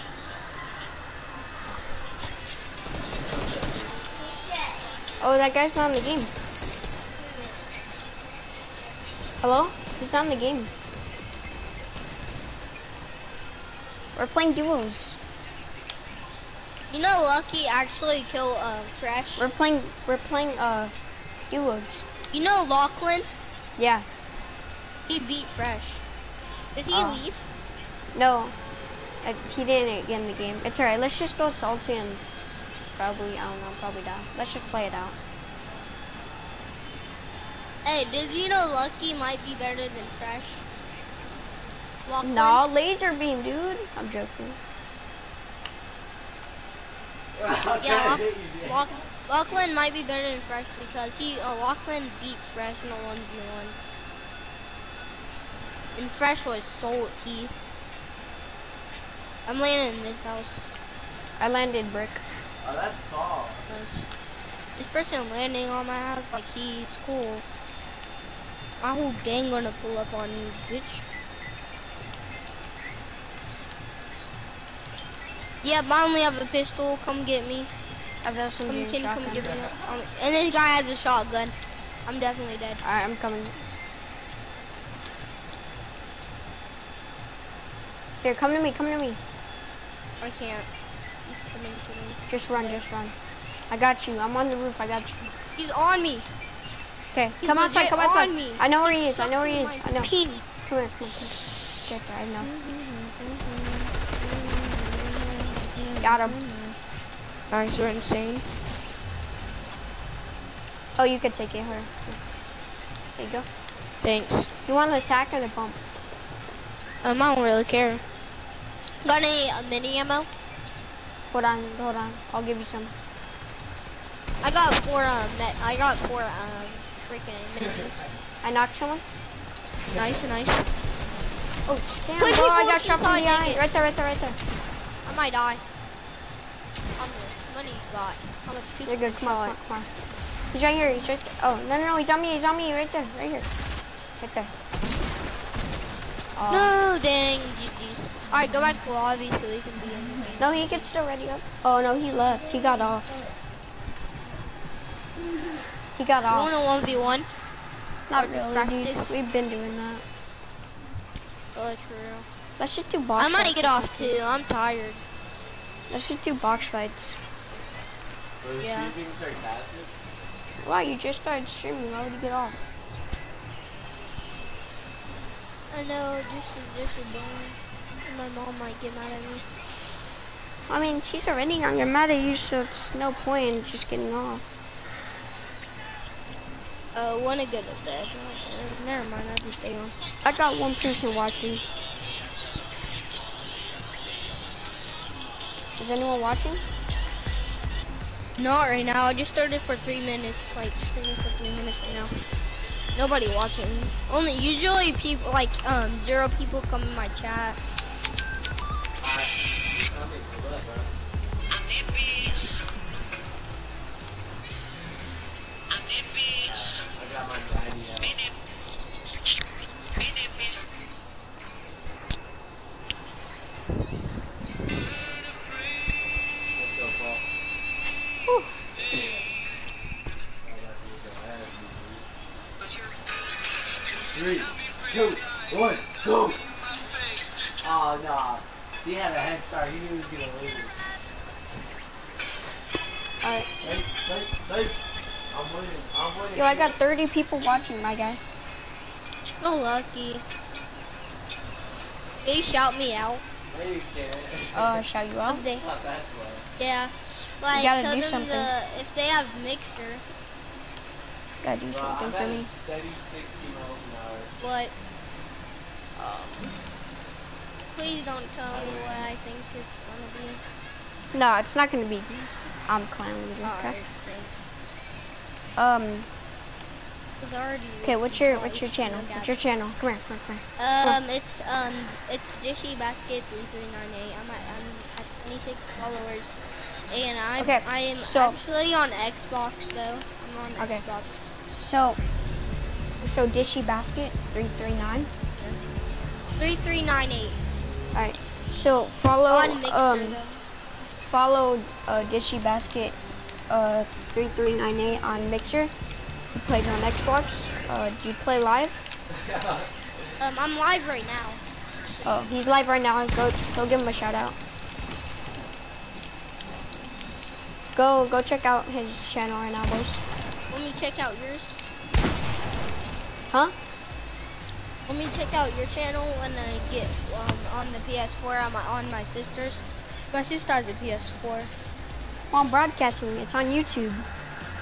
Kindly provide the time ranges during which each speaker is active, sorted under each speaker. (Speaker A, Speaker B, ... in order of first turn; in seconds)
Speaker A: 3.2-3.9, 47.4-48.9, 62.6-63.6, 168.4-169.9, 209.0-210.9, 216.4-218.2, 226.5-227.2, 230.4-232.0, 234.1-236.4, 237.6-240.7, 243.6-244.8, 245.3-246.7, 253.5-254.8, 255.6-256.4, 261.7-264.3, 268.5-269.1, 309.1-309.7
Speaker B: 5.2-6.3, 9.4-10.7, 14.1-15.2, 19.4-20.9, 21.5-22.0, 23.8-24.0, 26.9-27.2, 28.1-28.5, 29.2-32.2, 33.0-35.1, 42.2-44.6, 61.4-62.2, 78.2-79.5, 82.8-83.5, 88.2-89.2, 92.3-93.1, 93.7-95.2, 97.1-100.1, 100.7-102.5, 106.0-106.4, 111.0-112.2, 113.2-113.5, 114.7-115.8, 121.3-122.9, 128.4-129.0, 131.7-134.4, 138.9-139.9, 140.5-143.5, 144.2-144.5, 146.3-146.7, 150.4-153.1, 156.0-156.5, 158.1-160.0, 162.6-164.1, 165.9-167.2, 170.6-172.6, 180.7-184.4, 190.2-191.6, 195.8-196.6, 228.2-228.6, 243.2-243.5, 246.3-248.2, 254.5-255.4, 257.5-258.5, 261.4-262.5, 266.0-266.6, 271.1-273.8, 275.6-276.1, 277.8-281.0, 287.4-288.4, 290.6-290.8, 291.5-292.0, 293.0-295.1, 297.9-300.2, 301.1-302.9, 303.5-305.7, 306.3-308.8, 312.0-314.4, 317.7-320.0, 323.3-323.5, 332.3-334.1
Speaker C: 16.9-19.5, 22.3-23.3, 25.1-26.0, 26.7-27.4, 37.8-40.6, 42.0-42.7, 47.8-53.8, 56.0-57.5, 59.4-60.6, 63.7-64.1, 64.8-67.4, 68.8-71.0, 75.6-77.7, 78.7-81.5, 82.0-82.8, 90.2-90.7, 91.2-92.8, 95.6-96.3, 97.4-100.4, 102.4-106.8, 107.5-108.5, 114.0-114.5, 117.0-118.0, 119.0-120.3, 124.4-128.1, 129.9-130.7, 132.2-133.6, 135.0-135.6, 137.0-139.6, 146.5-150.9, 156.3-157.3, 158.1-159.1, 161.5-162.2, 163.2-165.0, 168.6-168.9, 175.7-179.4, 186.9-189.9, 198.4-202.1, 202.9-207.6, 249.4-250.2, 252.2-253.2, 255.3-255.7, 256.6-260.0, 264.4-264.7, 267.7-270.4, 273.4-274.5, 277.2-279.3, 280.6-291.3, 296.4-297.4, 299.3-300.4, 310.2-311.4, 320.5-321.6, 324.9-331.5